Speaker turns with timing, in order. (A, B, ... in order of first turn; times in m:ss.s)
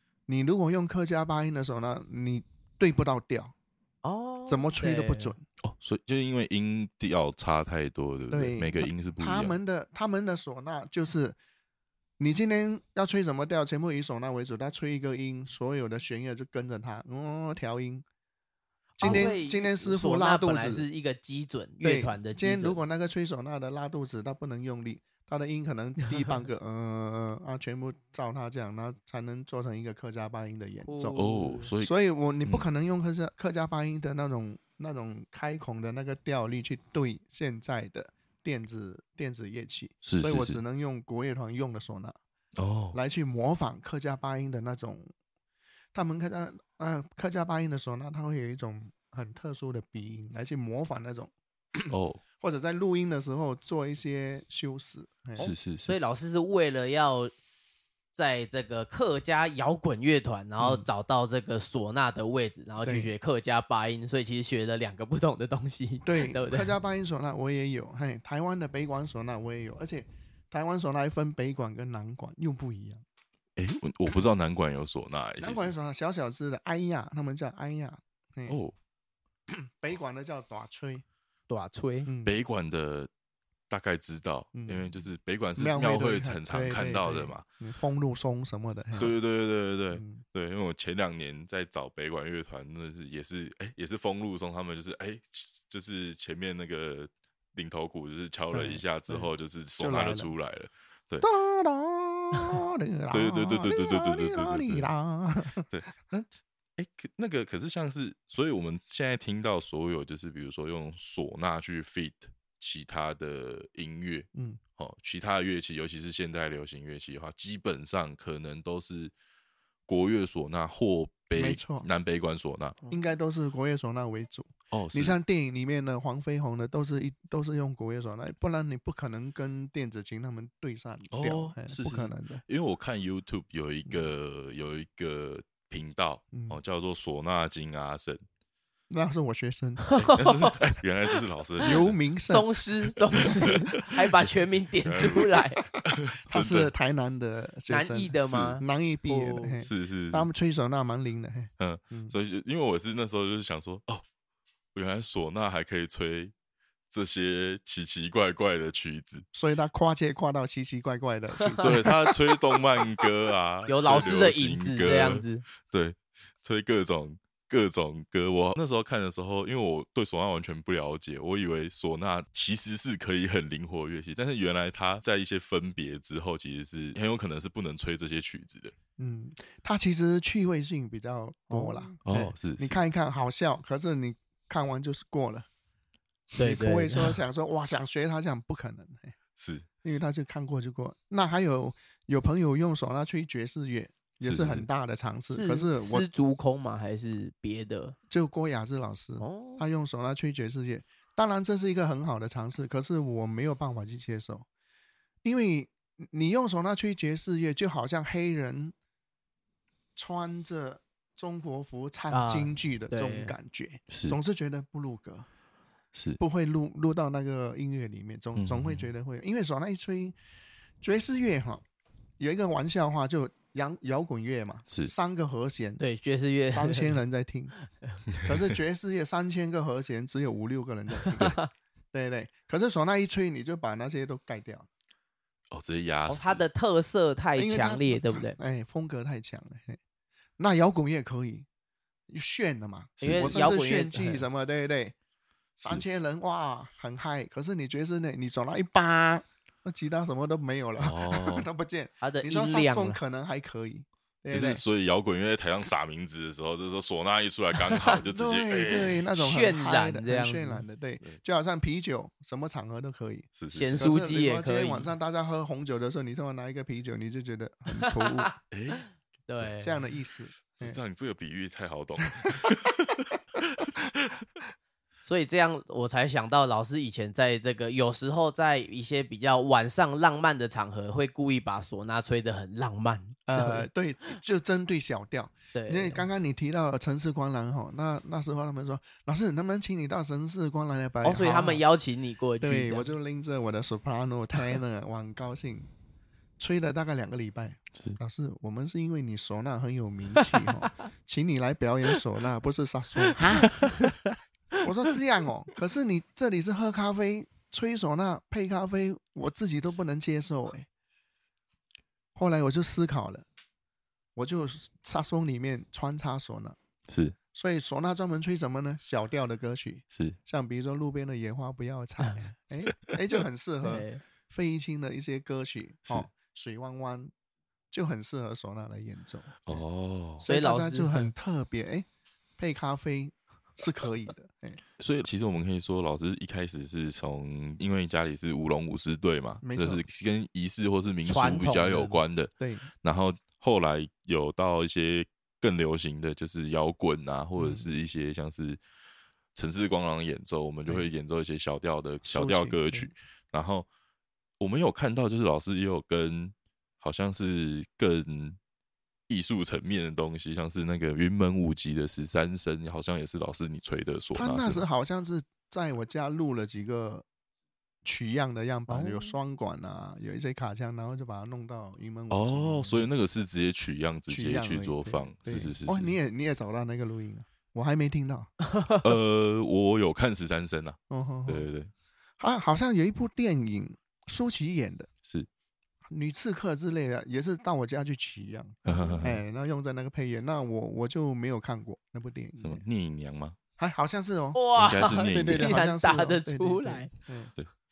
0:00.3-0:03.5 A
0:04.0-0:05.4 B
0:04.5-0:05.4 A
0:05.6-0:09.6 C
0:08.3-0:11.4 A
0:12.2-0:18.0 A
0:19.0-0:22.8 B
0:19.0-0:20.8 A
0:21.8-0:31.2 A
0:30.8-0:31.7 B
0:31.2-0:31.9 C
0:31.8-0:42.2 A
0:40.0-0:40.6 C
0:42.6-0:43.0 C
0:42.9-0:45.1 A
0:45.9-0:55.5 A
0:51.9-0:52.2 C
0:55.4-0:57.3 B
0:55.4-0:56.0 C
0:58.1-1:06.7 B
1:00.6-1:00.9 A
1:02.8-1:03.1 A
1:06.0-1:13.0 A
1:13.6-1:15.7 C
1:15.4-1:18.6 A
1:18.5-1:18.7 C
1:19.5-1:21.0 A
1:21.5-1:22.1 B
1:22.1-1:22.4 A
1:22.2-1:23.1 C
1:23.7-1:27.4 C
1:24.6-1:25.0 A
1:25.6-1:29.2 A
1:29.0-1:41.3 C
1:29.9-1:30.2 A
1:38.5-1:40.3 A
1:41.2-1:45.7 A
1:43.1-1:44.9 C
1:45.7-1:59.1 C
1:54.3-1:54.6 A
1:59.9-2:02.8 C
2:01.4-2:01.9 A
2:02.9-2:12.4 A
2:04.7-2:05.2 C
2:11.1-2:18.2 C
2:16.3-2:16.6 A
2:18.9-2:19.8 A
2:19.8-2:20.6 B
2:20.0-2:22.0 C
2:21.6-2:22.5 A
2:22.3-2:25.6 B
2:23.2-2:24.3 C
2:24.8-2:26.7 C
2:26.3-2:32.1 A
2:27.7-2:29.6 B
2:28.2-2:28.6 C
2:29.6-2:30.3 C
2:31.6-2:34.0 C
2:34.8-2:36.3 C
2:36.9-2:39.3 C
2:39.3-2:41.9 A
2:41.6-2:58.7 C
2:43.7-2:45.4 B
2:59.0-3:05.5 A
3:01.5-3:02.0 B
3:02.1-3:02.8 C
3:06.4-3:09.2 A
3:06.4-3:07.2 B
3:09.4-3:09.7 C
3:09.8-3:16.1 A
3:14.2-3:14.7 C
3:15.3-3:18.0 B
3:18.1-3:24.5 A
3:19.2-3:19.6 B
3:25.2-3:28.8 A
3:30.0-3:35.3 A
3:32.1-3:33.4 B
3:33.9-3:34.2 C
3:35.9-3:36.2 C
3:36.2-3:40.2 A
3:38.4-3:38.9 C
3:40.8-3:41.6 A
3:42.2-3:45.8 A
3:45.8-3:47.0 B
3:46.4-3:47.5 A
3:48.2-3:48.4 C
3:48.2-3:51.4 A
3:51.2-3:51.5 B
3:51.9-3:54.7 A
3:55.5-3:56.4 C
3:56.1-3:58.4 B
3:57.4-3:59.8 A
4:00.4-4:01.5 A
4:02.1-4:05.0 A
4:03.0-4:03.5 C
4:03.0-4:04.2 B
4:05.6-4:14.6 A
4:10.8-4:11.5 C
4:12.0-4:13.0 B
4:14.3-4:19.0 C
4:18.0-4:28.3 A
4:19.2-4:20.6 B
4:23.4-4:23.9 C
4:23.5-4:24.9 B
4:27.8-4:28.3 B
4:28.5-4:28.9 C
4:29.3-4:29.8 B
4:29.6-4:30.8 A
4:30.5-4:34.2 C
4:32.2-4:32.5 A
4:35.0-4:43.7 B
4:43.3-4:51.6 A
4:45.5-4:46.1 B
4:51.0-4:52.9 B
4:52.4-4:55.7 A
4:56.4-5:03.8 A
5:03.6-5:04.0 B
5:04.6-5:10.7 A
5:12.2-5:13.3 A
5:14.2-5:16.6 A
5:16.9-5:17.2 C
5:17.3-5:27.1 A
5:23.6-5:24.0 B
5:27.7-5:29.6 A
5:29.4-5:30.2 C
5:30.2-5:31.9 A
5:30.2-5:31.1 B
5:32.4-5:34.6 A
5:34.8-5:42.3 C
5:39.4-5:39.8 A
5:41.0-5:42.0 B
5:42.4-5:42.7 A
5:42.8-5:48.6 C
5:47.4-5:47.7 A
5:49.4-5:53.7 C
5:52.0-5:52.9 A
5:54.4-5:58.4 C
5:59.1-6:04.6 C
6:04.1-6:07.1 A
6:07.8-6:12.9 A
6:08.7-6:09.2 B
6:12.1-6:15.9 C
6:14.1-6:18.3 A
6:18.6-6:18.8 B
6:18.8-6:21.7 C
6:20.9-6:21.5 A
6:22.2-6:24.9 A
6:25.9-6:32.6 A
6:28.6-6:29.2 C
6:28.7-6:29.1 B
6:32.4-6:33.4 C
6:33.6-6:34.4 A
6:34.4-6:36.9 B
6:34.6-6:35.5 C
6:35.1-6:37.3 A